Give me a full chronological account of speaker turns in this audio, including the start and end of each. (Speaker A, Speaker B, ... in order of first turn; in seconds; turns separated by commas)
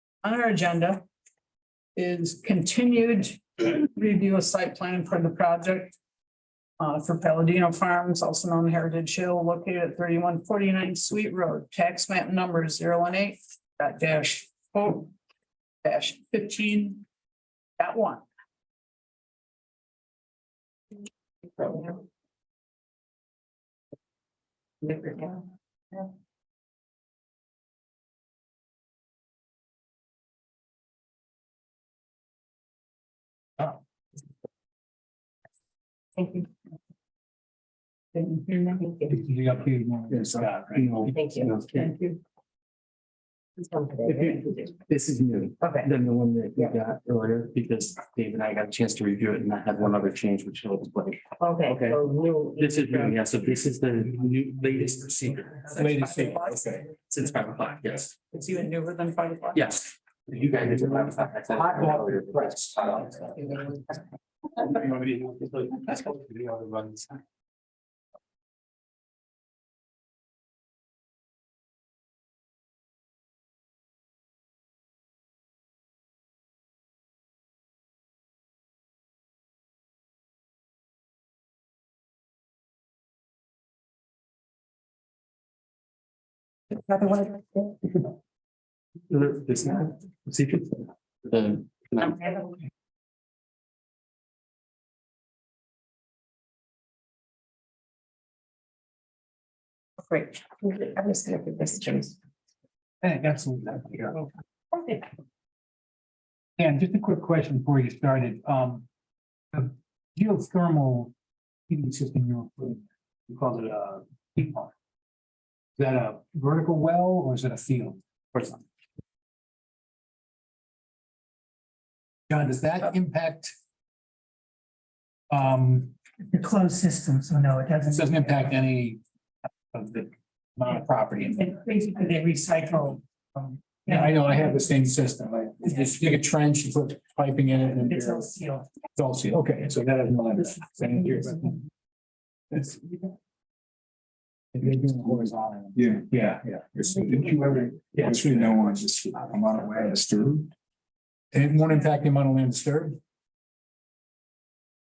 Speaker A: 0.2-1.0, Speaker A: 1.9-6.0, Speaker A: 6.8-15.1, Speaker A: 15.8-17.0, Speaker A: 17.8-18.2, Speaker B: 21.5-22.0, Speaker B: 24.8-25.4, Speaker B: 36.1-36.5, Speaker A: 38.1-38.8, Speaker B: 38.8-39.1, Speaker C: 39.1-41.2, Speaker D: 40.1-41.9, Speaker B: 41.1-41.5, Speaker A: 41.7-42.2, Speaker B: 43.6-44.7, Speaker D: 44.0-52.0, Speaker B: 51.4-53.1, Speaker D: 52.5-55.9, Speaker C: 55.7-56.9, Speaker D: 57.0-58.3, Speaker A: 58.4-59.4, Speaker D: 59.5-63.5, Speaker C: 61.5-63.2, Speaker D: 64.6-67.2, Speaker B: 86.8-87.7, Speaker D: 89.1-92.4, Speaker B: 100.1-102.1, Speaker C: 103.0-104.2, Speaker C: 106.6-108.8, Speaker C: 109.5-111.1, Speaker C: 111.7-114.7, Speaker C: 115.8-118.5, Speaker C: 122.3-123.5, Speaker C: 125.3-125.9, Speaker E: 126.2-128.5, Speaker C: 127.9-129.0, Speaker C: 129.7-131.5, Speaker E: 131.4-134.5, Speaker C: 133.8-138.3, Speaker E: 137.7-138.7, Speaker C: 138.9-141.6, Speaker C: 142.5-143.0, Speaker C: 144.5-146.6, Speaker F: 145.7-150.5, Speaker C: 147.9-148.7, Speaker C: 151.3-153.0